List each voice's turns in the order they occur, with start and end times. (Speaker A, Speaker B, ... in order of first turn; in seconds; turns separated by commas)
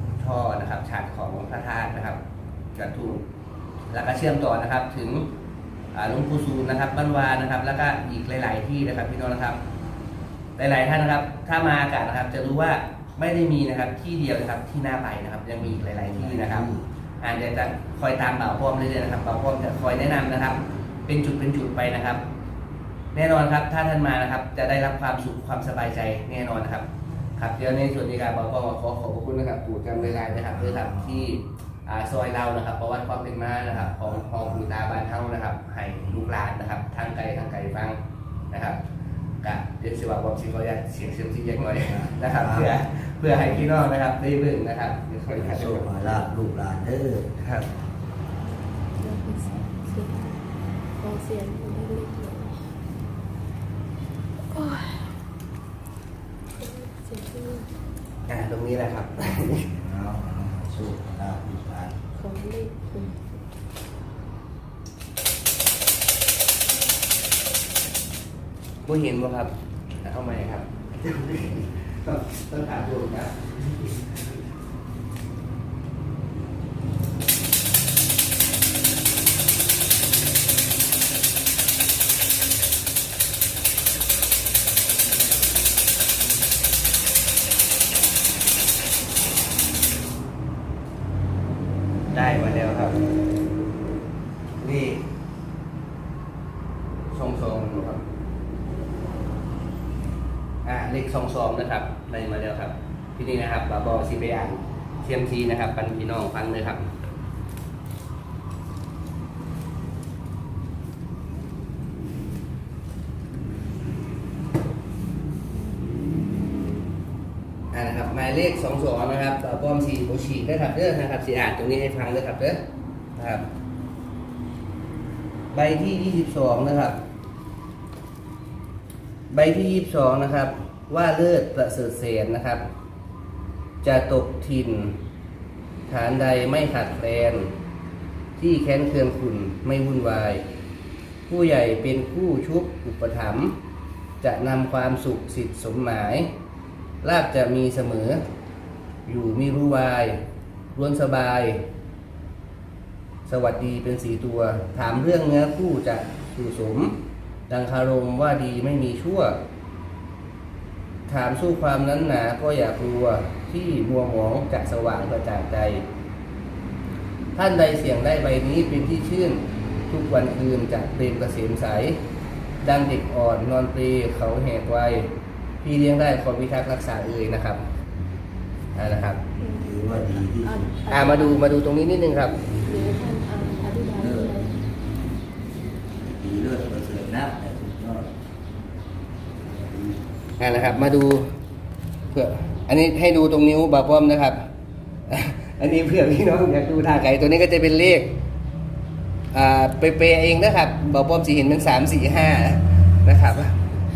Speaker A: 0.1-2.2, Speaker A: 2.7-3.2, Speaker A: 3.9-5.3, Speaker A: 5.9-9.6, Speaker A: 10.6-16.7, Speaker B: 15.6-16.9, Speaker A: 17.2-22.2, Speaker A: 23.1-38.0, Speaker B: 29.9-31.3, Speaker B: 33.7-34.8, Speaker A: 38.5-38.8, Speaker A: 39.4-46.1, Speaker B: 41.8-42.7, Speaker B: 45.3-47.3, Speaker A: 47.4-47.7, Speaker C: 49.0-50.4, Speaker B: 49.4-49.7, Speaker C: 51.0-52.6, Speaker C: 54.5-55.2, Speaker C: 56.6-57.7, Speaker A: 58.3-59.7, Speaker B: 59.4-61.9, Speaker C: 62.1-63.2, Speaker A: 68.8-74.4, Speaker A: 92.1-93.0, Speaker A: 94.6-95.0, Speaker A: 97.1-98.0, Speaker A: 100.6-106.9, Speaker A: 117.7-123.5, Speaker A: 125.5-127.0, Speaker A: 129.3-132.7, Speaker A: 133.8-135.0, Speaker A: 135.9-137.5, Speaker A: 138.4-140.4, Speaker A: 141.3-143.6, Speaker A: 144.2-146.3, Speaker A: 147.0-148.2, Speaker A: 149.1-150.2, Speaker A: 150.7-151.7, Speaker A: 153.2-157.0, Speaker A: 157.5-159.4, Speaker A: 161.1-165.9, Speaker A: 167.3-172.0, Speaker A: 172.6-175.1, Speaker A: 175.6-177.6, Speaker A: 178.7-179.2, Speaker C: 179.4-179.8, Speaker B: 179.4-180.8, Speaker C: 180.4-181.4, Speaker A: 180.9-182.4, Speaker C: 182.6-184.6, Speaker B: 183.9-184.5, Speaker B: 186.1-188.1, Speaker B: 189.4-190.0, Speaker A: 190.4-191.3, Speaker A: 192.1-194.5, Speaker A: 195.1-198.2, Speaker A: 199.3-203.6